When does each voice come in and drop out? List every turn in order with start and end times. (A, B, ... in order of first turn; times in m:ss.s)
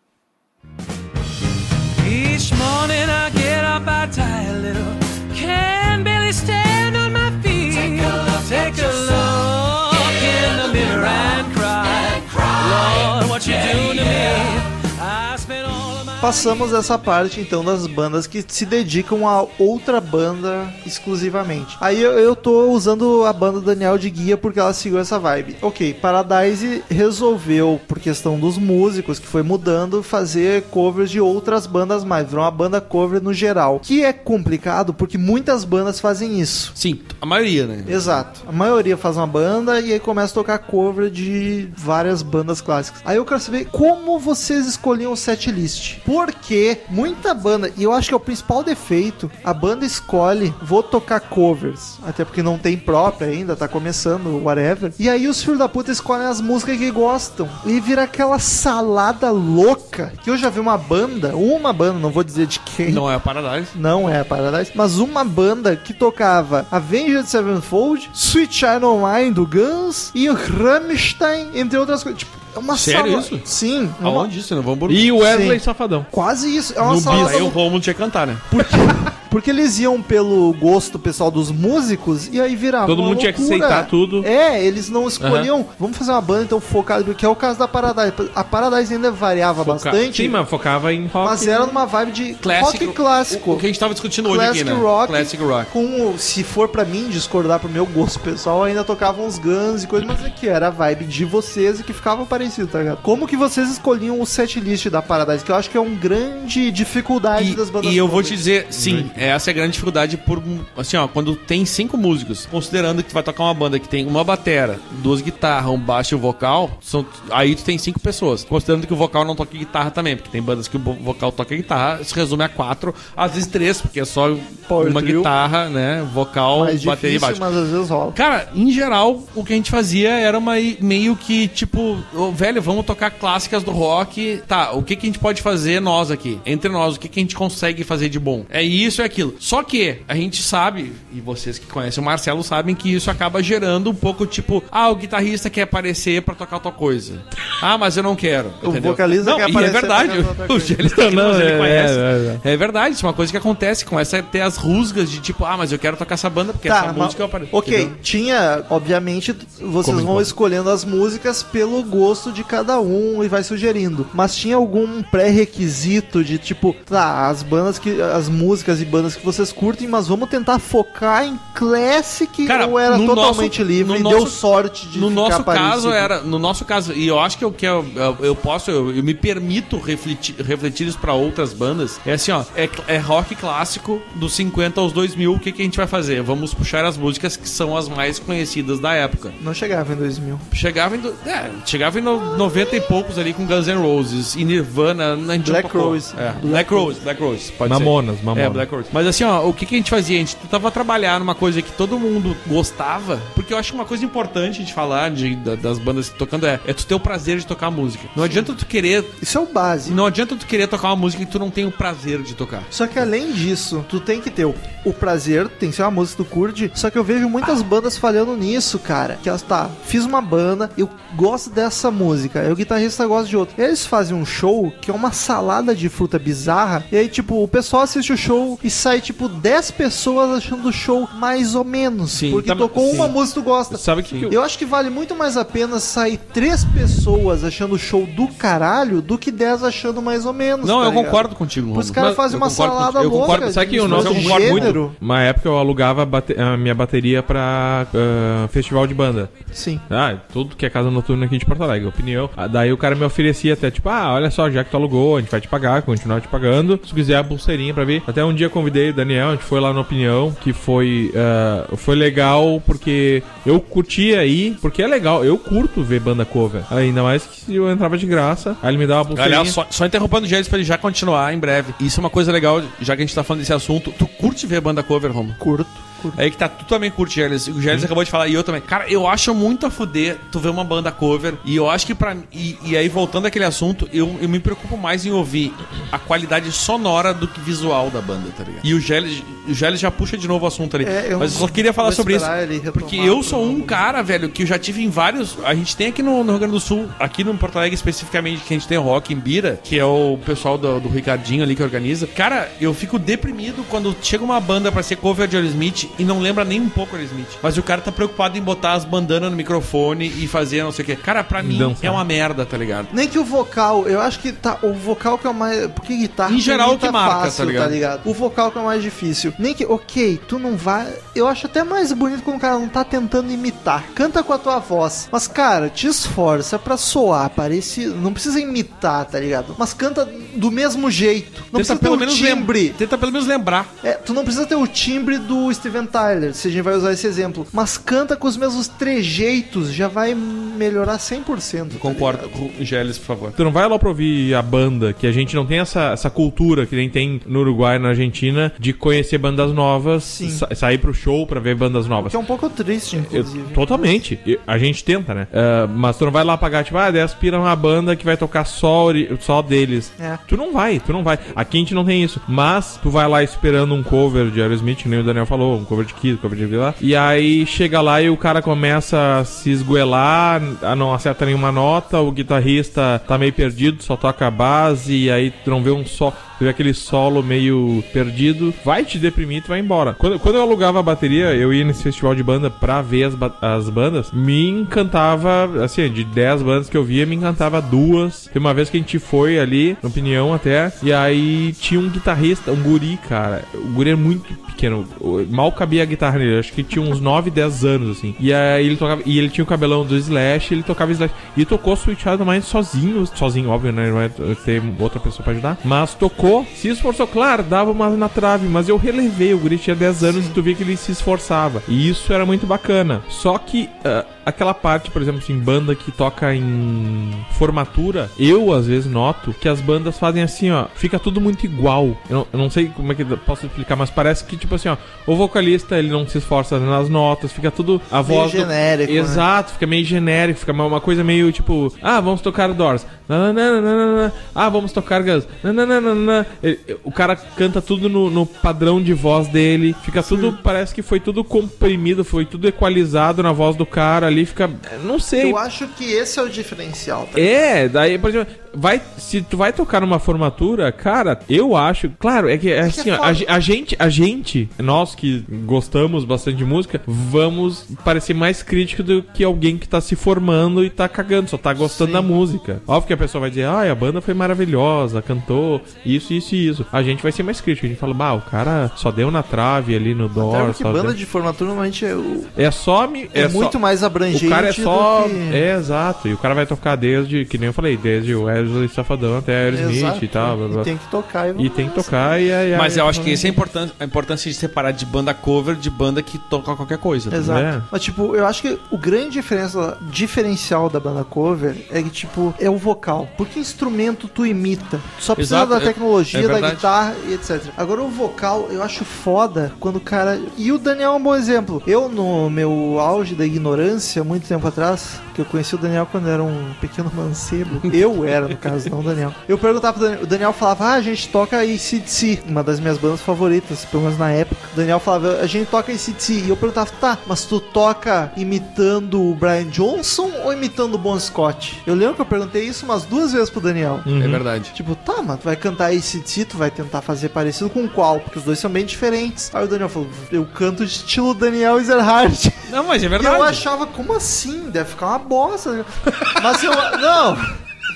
0:02.0-0:16.6 A
0:16.2-0:36.7 B
0:36.7-0:38.2 C
0:37.8-1:03.0 B
1:02.8-1:03.7 C
1:03.7-1:14.3 B
1:12.7-1:13.4 C
1:14.0-1:15.1 C
1:14.9-1:16.1 D
1:15.2-1:17.6 B
1:16.8-1:18.6 C
1:18.5-1:30.4 B
1:22.8-1:24.3 D
1:25.2-1:25.5 C
1:29.6-1:31.8 D
1:31.2-1:33.6 B
1:32.4-1:35.7 C
1:34.2-1:48.4 B
1:47.4-2:07.4 C
1:48.8-1:49.1 D
2:04.7-2:05.3 B
2:06.5-2:08.2 B
2:08.1-2:38.0 C
2:28.6-2:30.8 B
2:30.8-2:32.4 D
2:36.6-2:56.1 B
2:39.8-2:40.3 D
2:52.4-2:54.4 C
2:54.9-3:09.4 C
3:09.4-3:10.4 B
3:10.5-3:29.2 C
3:15.4-3:17.0 B
3:17.6-3:18.6 D
3:28.2-3:28.5 B
3:29.2-3:30.0 B
3:29.8-3:32.7 C
3:32.7-4:04.9 B
3:52.1-3:53.1 C
3:52.9-3:53.1 D
3:53.7-3:54.4 D
4:00.6-4:04.8 C
4:03.2-4:09.3 D
4:09.5-4:09.8 B
4:09.9-4:29.6 D
4:29.1-4:35.4 C
4:35.4-4:36.2 B
4:36.1-5:12.9 C
4:50.8-4:53.8 B
5:11.4-5:12.0 D
5:12.9-5:32.8 B
5:16.2-5:17.8 C
5:31.5-5:33.7 C
5:33.8-5:42.3 B
5:41.7-5:43.4 C
5:43.4-5:52.2 D
5:50.0-5:50.4 B
5:52.0-5:54.0 B
5:52.9-7:25.4 D
6:50.0-6:50.4 B
7:08.0-7:09.2 B
7:20.0-7:20.3 B
7:25.2-7:27.3 B
7:27.1-7:51.0 D
7:32.6-7:33.2 B
7:41.6-7:42.1 B
7:50.2-7:52.3 B
7:52.4-7:53.6 D
7:53.1-7:55.4 B
7:54.1-8:00.7 D
7:59.5-8:02.1 B
8:01.4-8:03.0 D
8:02.5-8:07.2 C
8:02.9-8:03.3 B
8:07.1-8:43.9 B
8:07.2-8:07.7 D
8:15.2-8:16.7 C
8:43.8-8:44.2 D
8:44.0-8:44.5 C
8:44.5-8:52.4 B
8:52.5-8:53.4 C
8:53.0-8:57.3 B